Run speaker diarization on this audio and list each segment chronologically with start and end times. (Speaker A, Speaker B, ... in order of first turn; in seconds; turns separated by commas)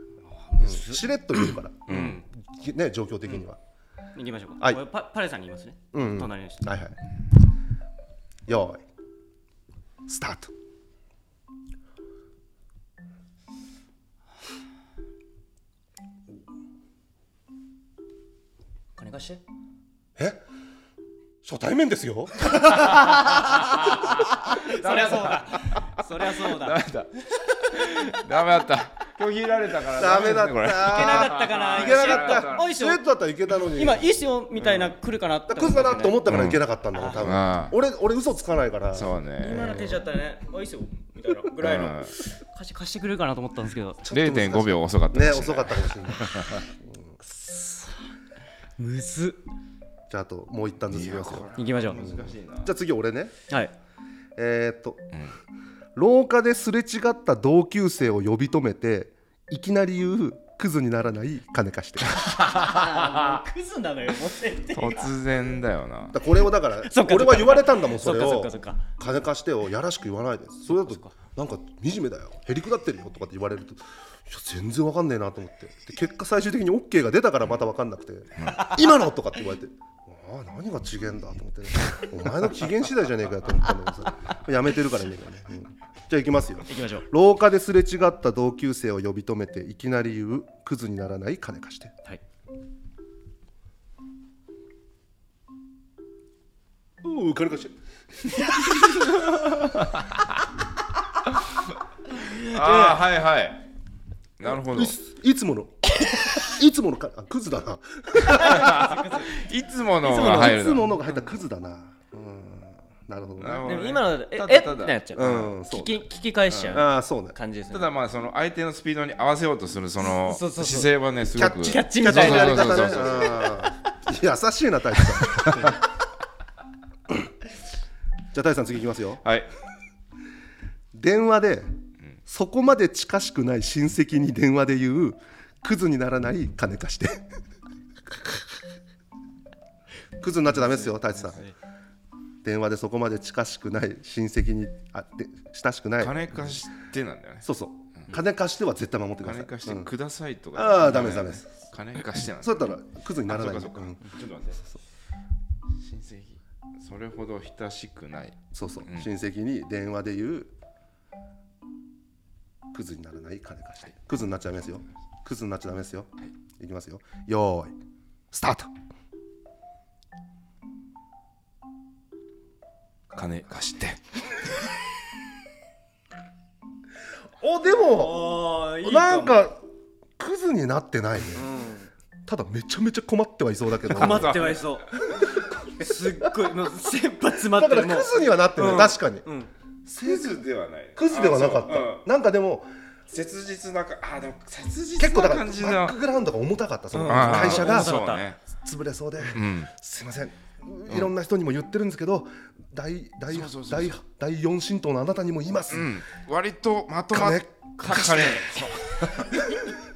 Speaker A: 0.4-2.1, Speaker B: 0.6-3.6, Speaker C: 1.9-2.2, Speaker A: 4.1-6.7, Speaker B: 5.9-6.9, Speaker B: 8.5-8.8, Speaker B: 10.1-10.5, Speaker A: 19.0-19.4, Speaker B: 21.4-23.4, Speaker A: 22.9-23.4, Speaker C: 23.0-32.6, Speaker A: 24.0-26.8, Speaker B: 29.9-34.1, Speaker A: 30.8-36.3, Speaker C: 34.6-34.9, Speaker B: 35.5-40.0, Speaker C: 36.2-36.6, Speaker A: 36.9-37.3, Speaker C: 37.1-37.7, Speaker C: 38.9-39.6, Speaker A: 39.4-44.0, Speaker C: 41.5-42.1, Speaker B: 44.0-46.3, Speaker C: 44.1-46.6, Speaker B: 46.9-47.1, Speaker A: 47.2-48.1, Speaker A: 48.8-49.4, Speaker B: 50.1-53.3, Speaker C: 50.9-52.7, Speaker A: 51.5-52.0, Speaker B: 54.4-55.1, Speaker B: 55.9-62.2, Speaker C: 62.2-63.4, Speaker A: 62.4-65.1, Speaker C: 64.7-66.1, Speaker B: 66.1-91.9, Speaker A: 66.7-68.8, Speaker A: 70.7-71.1, Speaker C: 78.4-78.7, Speaker A: 86.7-87.0, Speaker B: 97.0-97.7, Speaker B: 98.2-99.5, Speaker A: 102.2-103.0, Speaker C: 102.3-103.6, Speaker C: 104.4-104.9, Speaker B: 104.5-108.9, Speaker A: 106.0-106.4, Speaker A: 108.2-109.3, Speaker C: 108.5-110.9, Speaker B: 110.0-113.7, Speaker C: 113.4-115.5, Speaker A: 113.6-117.9, Speaker B: 115.1-116.0, Speaker C: 116.5-116.8, Speaker B: 116.7-117.3, Speaker C: 117.7-123.4, Speaker A: 120.0-123.7, Speaker B: 121.3-125.7, Speaker B: 128.3-129.2, Speaker B: 130.9-131.7, Speaker B: 132.3-137.2, Speaker B: 140.2-141.4, Speaker A: 140.6-141.5, Speaker B: 142.4-146.2, Speaker C: 146.0-147.4, Speaker B: 147.4-149.9, Speaker C: 149.2-152.7, Speaker B: 150.5-151.4, Speaker B: 152.4-154.0, Speaker C: 153.3-154.6, Speaker C: 155.8-159.1, Speaker B: 158.5-160.5, Speaker B: 162.7-167.8, Speaker B: 168.3-168.7, Speaker C: 173.1-174.0, Speaker B: 177.4-179.7, Speaker A: 177.9-179.5, Speaker B: 180.2-181.5, Speaker A: 181.3-181.9, Speaker B: 182.3-184.4, Speaker C: 183.9-184.7, Speaker A: 183.9-185.0, Speaker A: 185.6-189.5, Speaker B: 187.4-189.2, Speaker B: 189.9-190.4, Speaker C: 190.0-192.0, Speaker B: 190.9-192.7, Speaker C: 193.1-196.0, Speaker B: 195.0-198.0, Speaker A: 196.9-198.3, Speaker C: 197.0-198.4, Speaker B: 198.6-205.9, Speaker C: 199.3-199.7, Speaker C: 203.3-204.0, Speaker C: 205.7-209.4, Speaker B: 207.1-208.5, Speaker B: 209.4-209.6